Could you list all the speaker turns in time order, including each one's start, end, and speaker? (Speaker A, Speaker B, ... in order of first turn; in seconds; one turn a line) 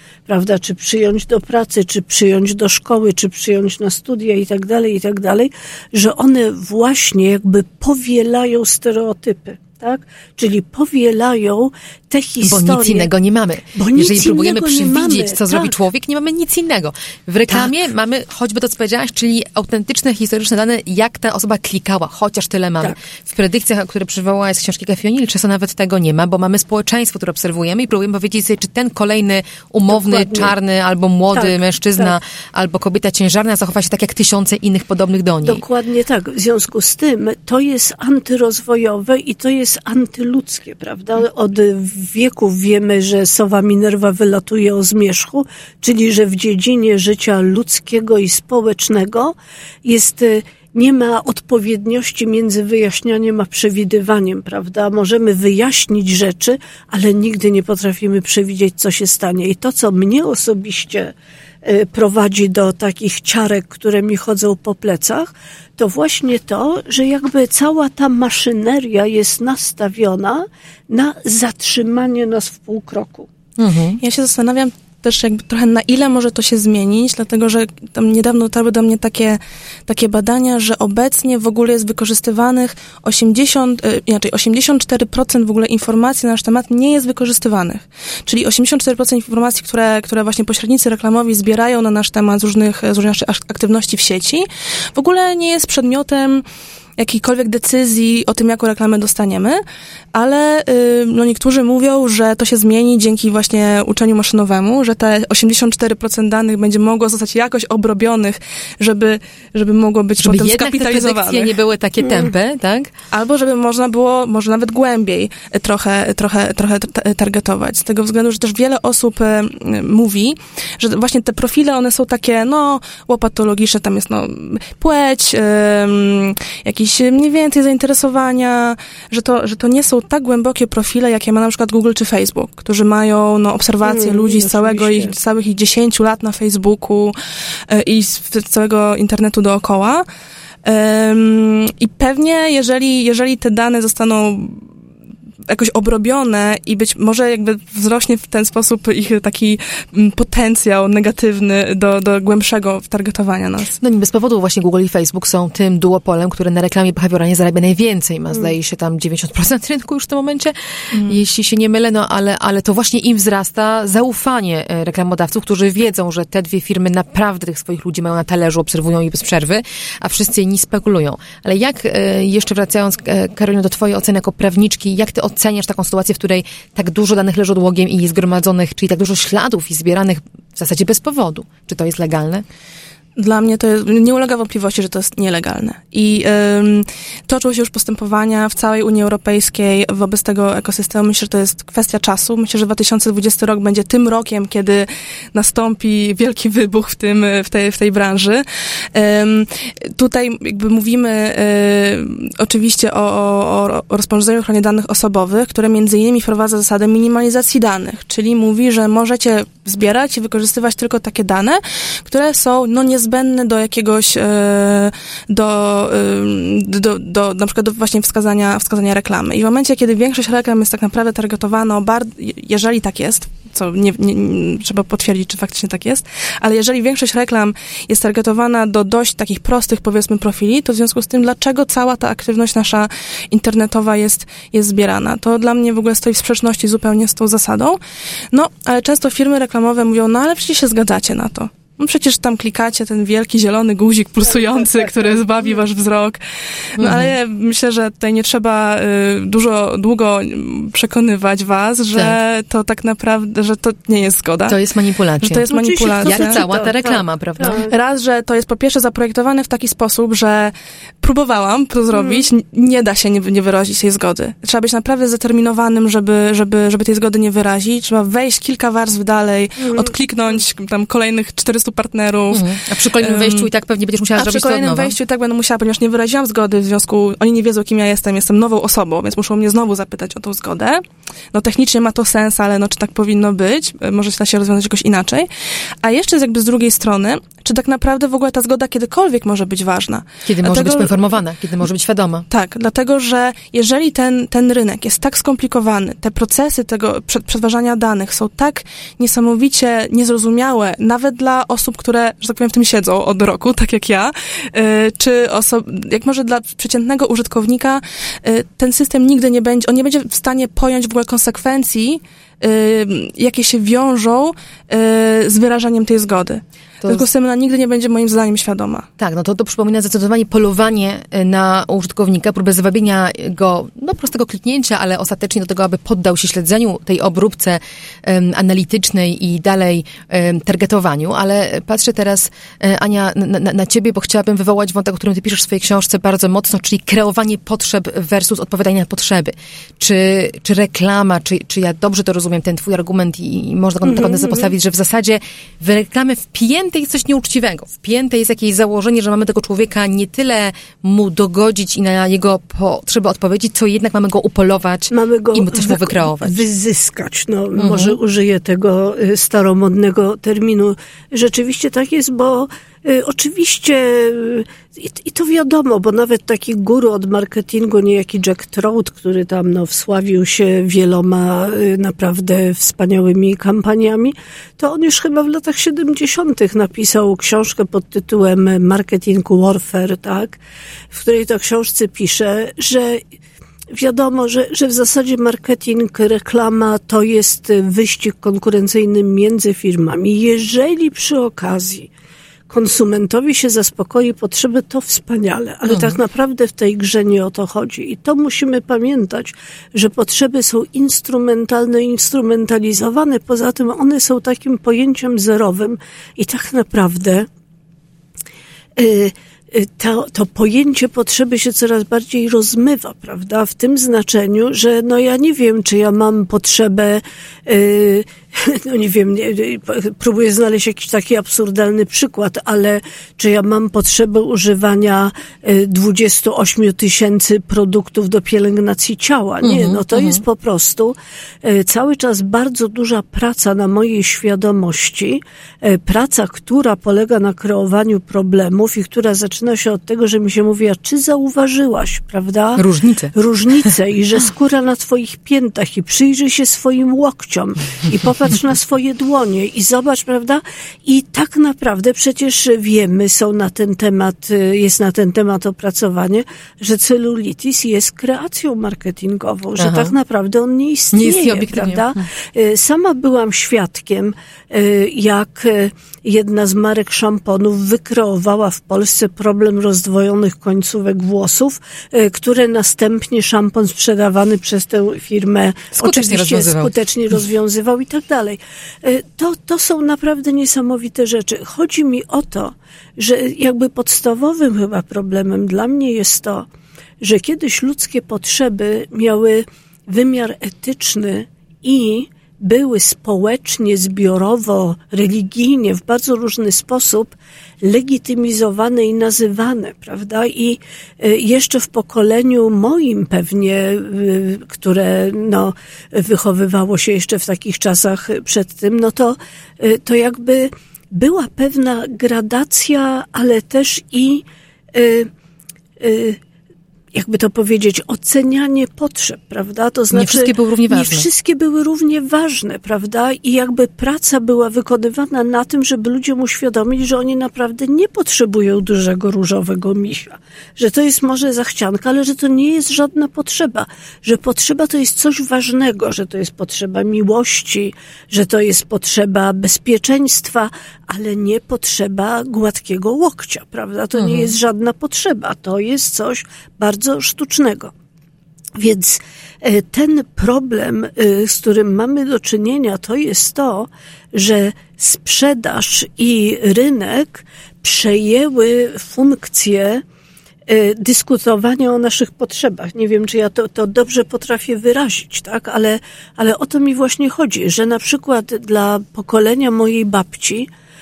Speaker A: 0.3-13.1
Speaker B: 12.4-35.6
Speaker A: 13.7-15.7
Speaker A: 29.9-30.5
Speaker A: 31.3-32.1
Speaker A: 35.4-73.3
Speaker B: 73.6-74.0
Speaker C: 74.0-96.4
Speaker C: 97.0-99.6
Speaker C: 100.1-111.5
Speaker B: 110.2-112.9
Speaker A: 112.0-112.3
Speaker C: 113.1-137.1
Speaker A: 133.8-135.1
Speaker C: 137.7-140.1
Speaker C: 140.6-144.6
Speaker C: 145.5-153.8
Speaker B: 153.8-182.4
Speaker C: 160.9-161.2
Speaker C: 183.2-237.8
Speaker C: 238.3-254.6
Speaker A: 244.2-245.2
Speaker B: 246.8-247.1
Speaker B: 254.5-255.5
Speaker C: 255.2-256.4
Speaker A: 255.5-257.7
Speaker B: 256.0-257.7
Speaker C: 257.4-273.5
Speaker A: 261.9-262.2
Speaker A: 269.6-269.9
Speaker B: 272.3-274.9
Speaker C: 274.1-285.3
Speaker C: 285.8-291.0
Speaker B: 290.2-292.2
Speaker C: 292.3-318.9
Speaker B: 319.0-356.4
Speaker A: 343.8-344.5
Speaker A: 354.9-383.1
Speaker B: 357.6-358.0
Speaker A: 383.7-391.9
Speaker A: 392.5-407.3
Speaker B: 395.7-395.9
Speaker A: 408.8-486.5
Speaker B: 429.4-430.2
Speaker B: 442.6-443.7
Speaker B: 459.6-459.9
Speaker B: 460.9-461.9
Speaker B: 475.8-476.7
Speaker A: 487.0-515.1
Speaker A: 515.8-516.2
Speaker A: 516.9-547.7
Speaker B: 519.9-521.1
Speaker B: 544.0-544.3
Speaker A: 548.5-559.8
Speaker A: 560.5-570.5